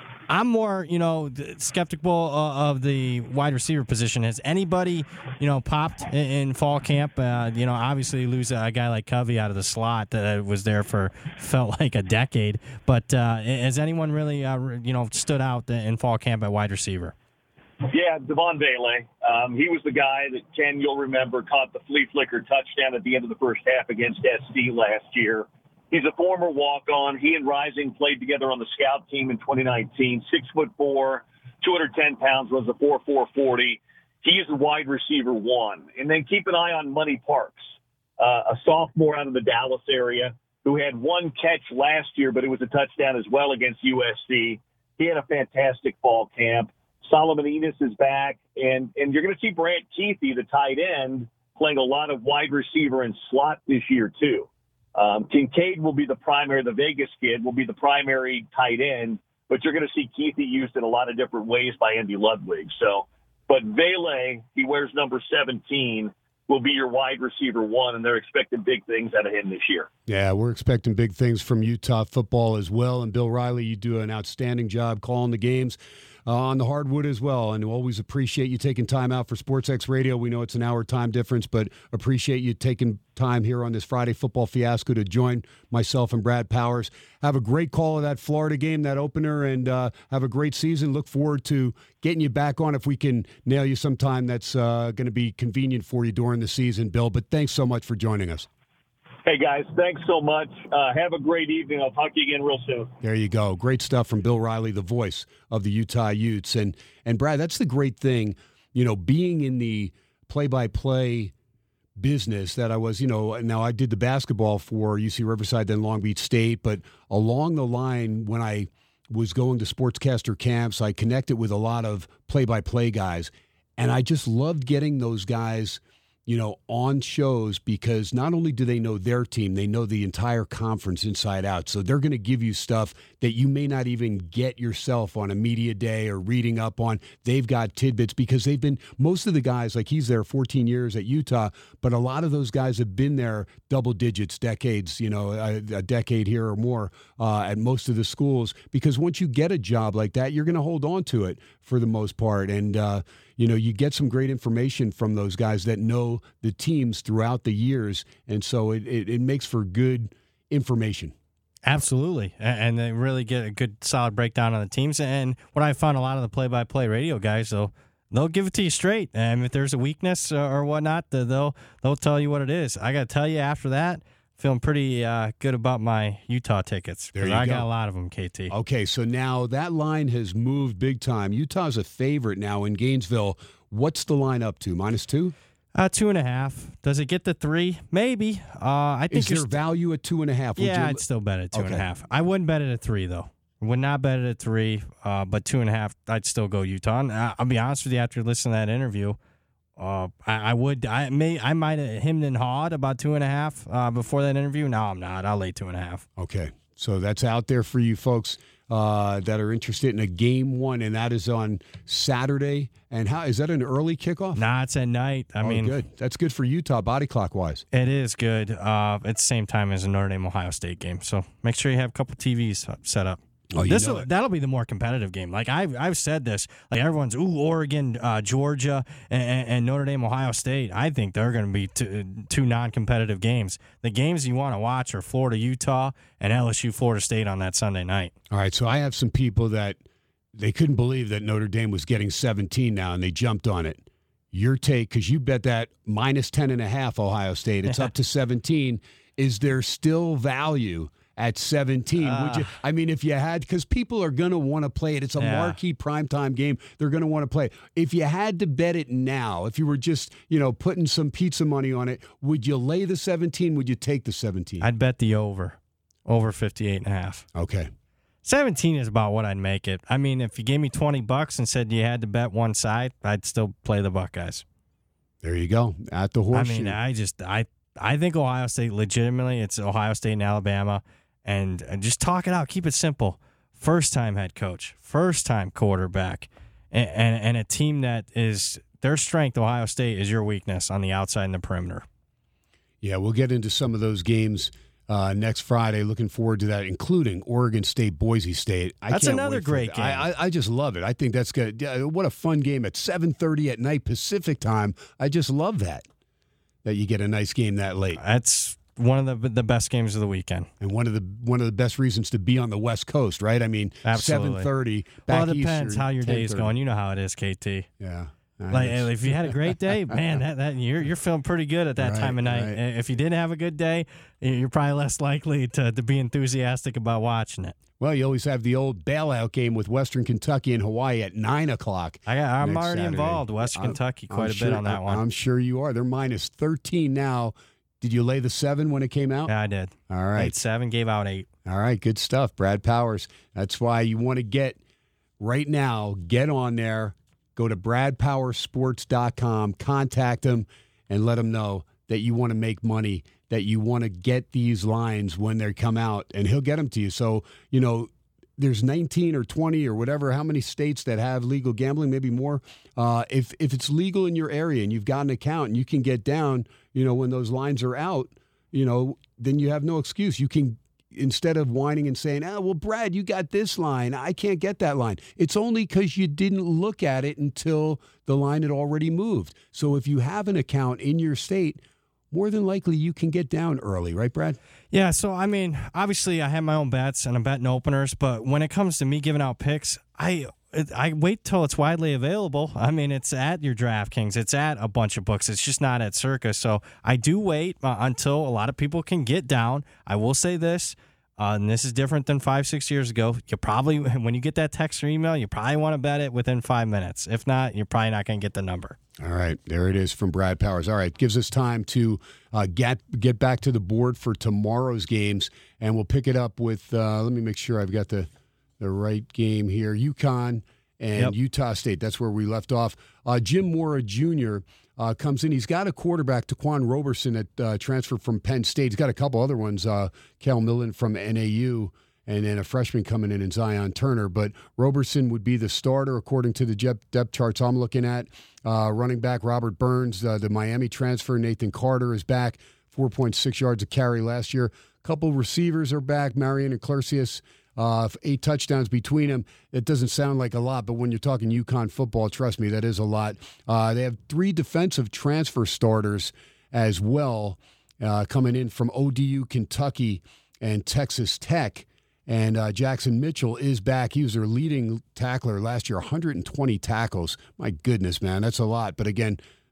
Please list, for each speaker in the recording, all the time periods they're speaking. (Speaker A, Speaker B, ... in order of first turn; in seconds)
Speaker A: 0.3-17.1, 161.6-178.5, 185.8-189.6, 190.6-199.2, 199.8-206.1, 214.4-215.8, 217.7-238.1, 252.0-252.6, 255.2-255.6, 264.6-267.2, 268.2-274.4, 276.3-291.9, 298.9-300.1, 308.0-310.5, 313.9-314.5, 315.1-317.7, 318.5-327.6, 332.1-335.0, 339.3-341.3, 384.7-408.8
Speaker B: 17.8-69.9, 99.2-102.9
Speaker C: 70.1-98.5, 103.0-111.3, 112.0-161.1, 177.2-177.7, 178.5-185.3, 189.1-191.0, 191.5-191.8, 206.2-214.4, 215.4-217.7, 223.5-224.1, 238.3-239.8, 240.3-264.7, 267.3-267.7, 275.2-276.8, 292.8-305.9, 306.6-308.0, 310.6-316.5, 317.8-320.0, 321.8-322.6, 327.8-339.3, 339.9-340.3, 341.5-344.6, 345.2-384.4, 409.0-418.1, 418.6-469.2